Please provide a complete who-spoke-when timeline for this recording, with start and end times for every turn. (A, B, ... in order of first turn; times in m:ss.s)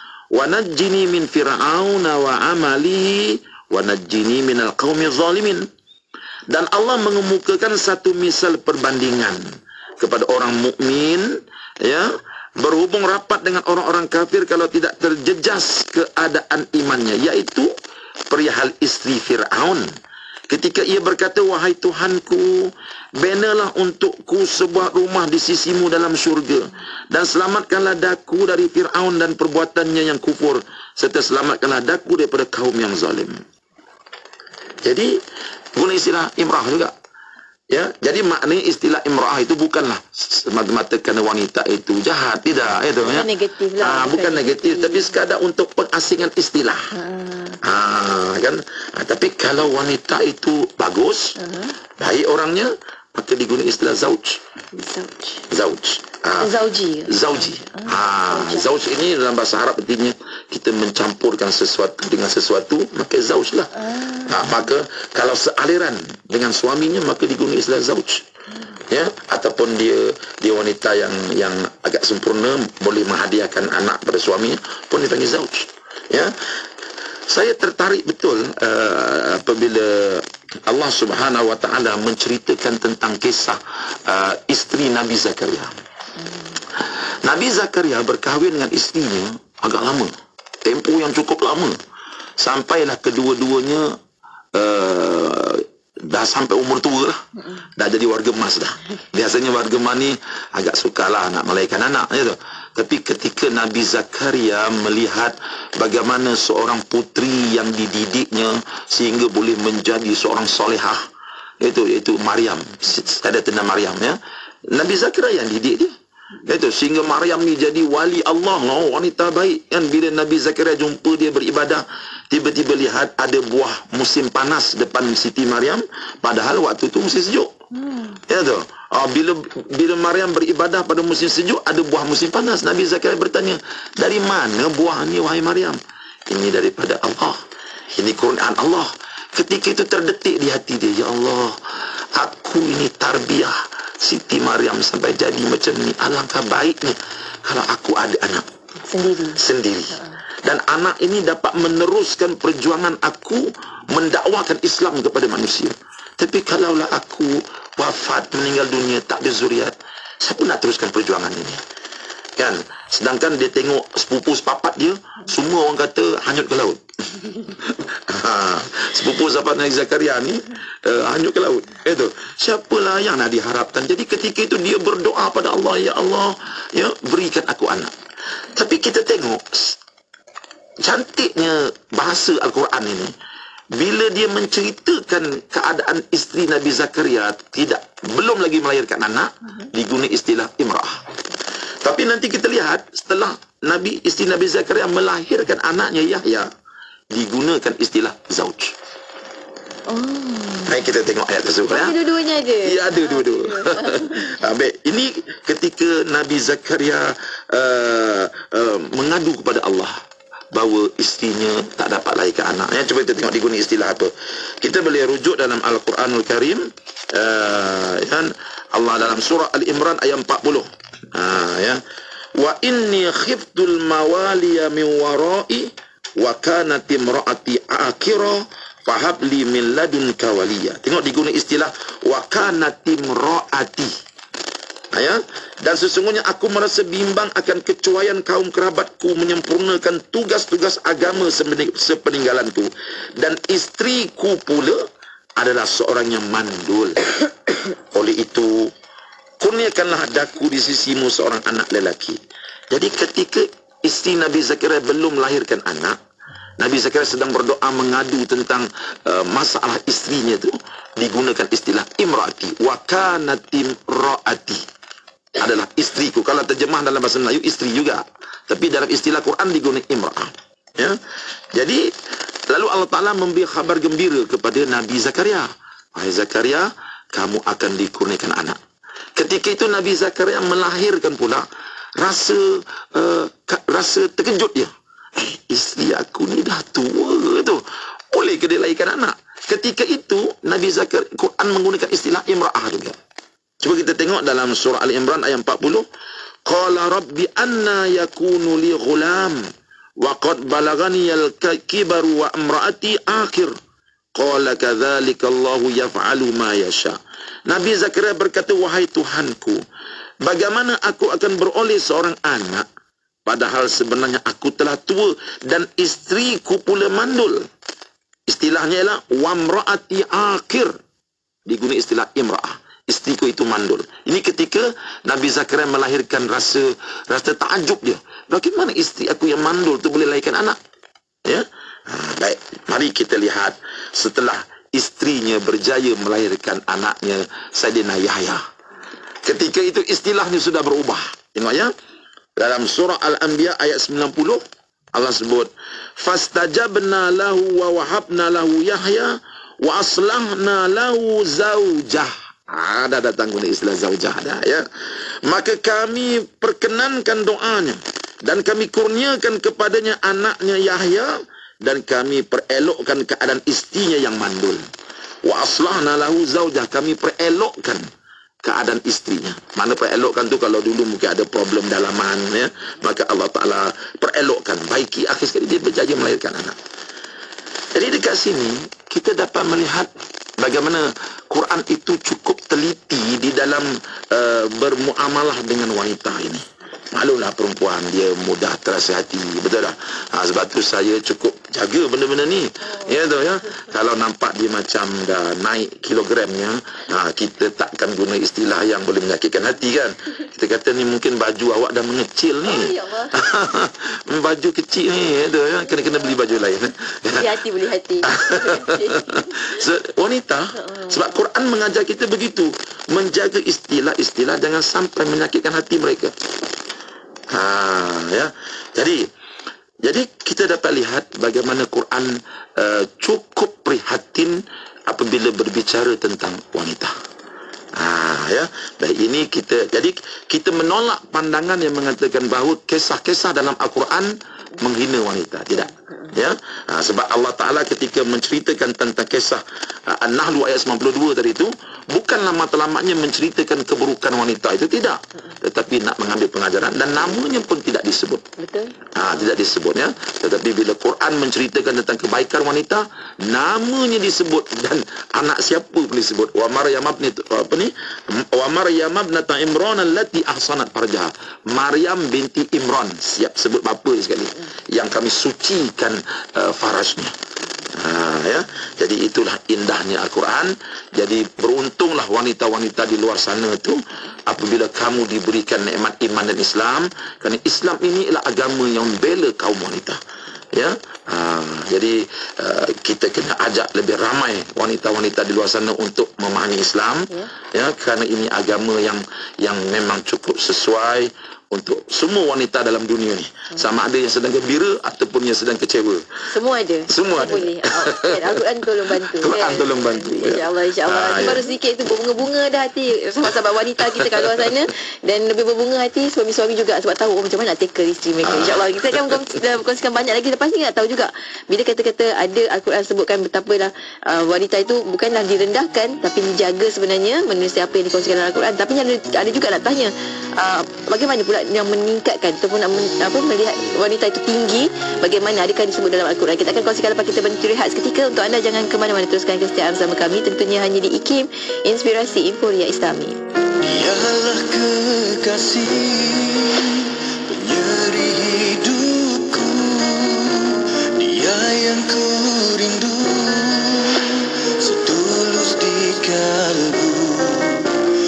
0:00.3-0:05.6 A
0:06.5-0:09.4 A
0:10.0-0:11.3 A
0:11.8-0:17.7 A
0:18.3-0:19.8 A
0:20.5-0:33.4 A
0:34.8-0:35.2 A
0:35.8-0:36.9 A
0:37.7-0:43.3 A
0:43.0-0:45.2 B
0:43.8-0:46.8 A
0:46.9-0:47.6 B
0:47.6-0:51.3 A
0:51.4-0:51.7 B
0:52.0-0:54.4 A
0:54.7-0:55.4 B
0:55.5-0:56.5 A
0:56.4-0:58.7 B
0:57.1-1:03.7 A
1:03.8-1:04.6 B
1:04.3-1:08.2 A
1:08.9-1:16.3 A
1:17.3-1:25.7 A
1:26.2-1:26.6 B
1:27.2-1:30.1 A
1:30.6-1:31.8 A
1:32.4-1:33.9 A
1:34.5-1:37.2 A
1:37.4-1:37.6 B
1:37.8-1:51.0 A
1:51.6-1:54.2 A
1:54.7-1:55.9 A
1:56.4-2:07.5 A
2:07.7-2:08.2 B
2:08.3-2:15.8 A
2:16.3-2:17.4 A
2:17.9-2:21.6 A
2:22.1-2:28.4 A
2:28.9-2:29.4 B
2:29.4-2:41.6 A
2:42.4-2:46.8 A
2:47.5-2:57.9 A
2:58.5-2:59.8 A
3:00.8-3:03.1 A
3:03.7-3:11.0 A
3:11.8-3:16.5 A
3:17.1-3:18.7 A
3:19.9-3:20.7 B
3:20.7-3:22.0 A
3:21.7-3:24.3 B
3:22.6-3:30.0 A
3:30.5-3:41.8 A
3:42.4-3:53.9 A
3:54.9-4:04.8 A
4:05.4-4:07.0 A
4:07.9-4:08.7 A
4:09.4-4:12.2 A
4:12.7-4:16.0 A
4:16.6-4:24.6 A
4:25.3-4:31.0 A
4:31.5-4:31.9 A
4:32.5-4:38.6 A
4:39.2-4:41.4 A
4:42.0-4:53.0 A
4:53.6-4:55.9 A
4:56.4-4:59.4 A
5:00.0-5:03.5 A
5:04.1-5:09.6 A
5:10.2-5:12.6 A
5:13.2-5:17.5 A
5:18.3-5:20.7 A
5:21.4-5:30.6 A
5:31.2-5:38.4 A
5:39.2-5:41.7 A
5:42.4-5:44.4 A
5:44.9-5:54.7 A
5:55.2-6:04.6 A
6:05.2-6:07.8 A
6:08.4-6:16.6 A
6:17.7-6:47.3 A
6:42.4-6:43.2 B
6:47.1-6:49.5 B
6:48.0-6:56.1 A
6:50.6-6:51.1 B
6:57.3-6:59.1 A
6:59.8-7:06.9 A
7:07.8-7:28.2 A
7:28.4-7:28.7 B
7:29.0-7:47.1 A
7:47.7-8:00.0 A
8:00.5-8:16.0 A
8:16.3-8:53.2 B
8:16.9-8:18.4 A
8:19.0-8:21.5 A
8:24.0-8:24.5 A
8:28.2-8:29.1 A
8:53.6-9:07.7 C